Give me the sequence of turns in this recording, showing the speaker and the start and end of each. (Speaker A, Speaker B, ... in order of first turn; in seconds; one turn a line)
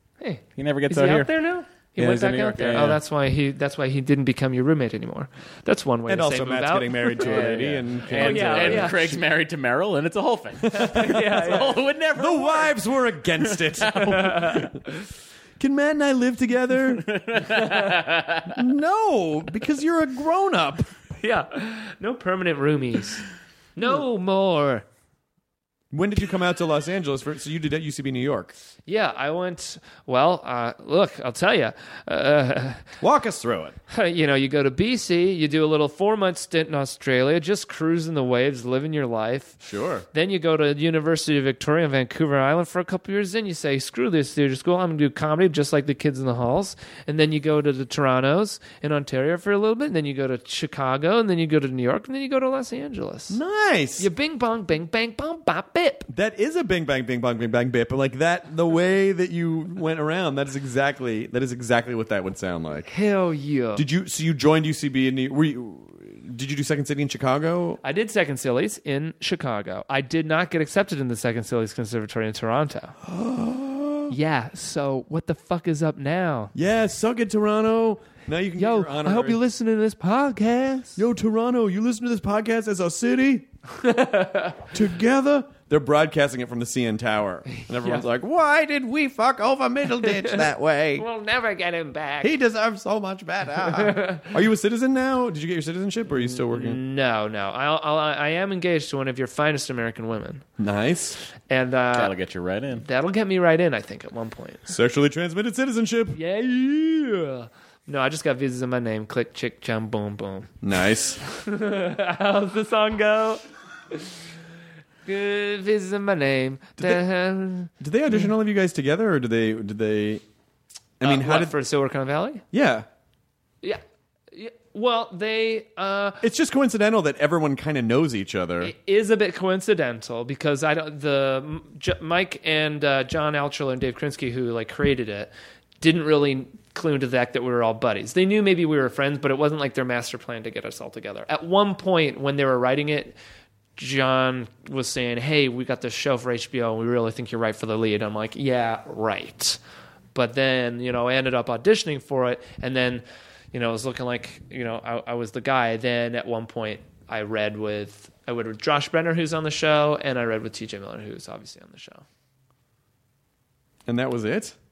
Speaker A: 0.2-7.2
Speaker B: 0.6-1.3
Speaker B: 1.9-3.0
Speaker C: 6.1-9.2
Speaker B: 7.2-12.7
Speaker A: 8.1-9.1
Speaker A: 10.7-11.8
Speaker C: 10.8-11.1
Speaker C: 12.2-14.7
Speaker B: 13.5-14.1
Speaker A: 13.9-14.7
Speaker C: 15.6-17.1
Speaker B: 17.0-18.6
Speaker A: 17.5-18.0
Speaker C: 18.5-20.9
Speaker A: 21.2-23.2
Speaker A: 23.8-24.9
Speaker C: 25.9-28.5
Speaker A: 28.9-32.8
Speaker C: 33.0-33.8
Speaker A: 33.9-39.6
Speaker C: 39.6-40.1
Speaker A: 40.1-53.4
Speaker C: 53.3-54.1
Speaker A: 54.0-56.1
Speaker C: 56.1-62.9
Speaker A: 62.9-63.9
Speaker C: 63.7-67.8
Speaker A: 67.8-73.0
Speaker C: 73.0-74.1
Speaker A: 74.1-76.5
Speaker C: 76.5-79.4
Speaker A: 78.6-81.0
Speaker C: 81.0-83.5
Speaker A: 83.7-84.7
Speaker C: 84.7-91.1
Speaker A: 87.6-88.0
Speaker A: 90.0-90.4
Speaker A: 91.0-92.3
Speaker C: 92.2-96.8
Speaker A: 93.7-94.3
Speaker A: 96.2-100.5
Speaker C: 100.6-101.2
Speaker A: 101.5-102.1
Speaker B: 101.9-102.8
Speaker A: 102.8-104.7
Speaker C: 104.7-106.2
Speaker A: 106.1-110.5
Speaker C: 110.6-111.2
Speaker A: 111.3-114.1
Speaker A: 115.1-118.3
Speaker C: 116.8-117.0
Speaker C: 117.7-120.2
Speaker C: 121.0-121.5
Speaker A: 121.0-122.4
Speaker C: 122.5-122.9
Speaker A: 124.3-126.2
Speaker C: 126.2-128.7
Speaker A: 128.6-143.2
Speaker A: 143.8-149.6
Speaker A: 150.1-162.0
Speaker C: 163.9-164.6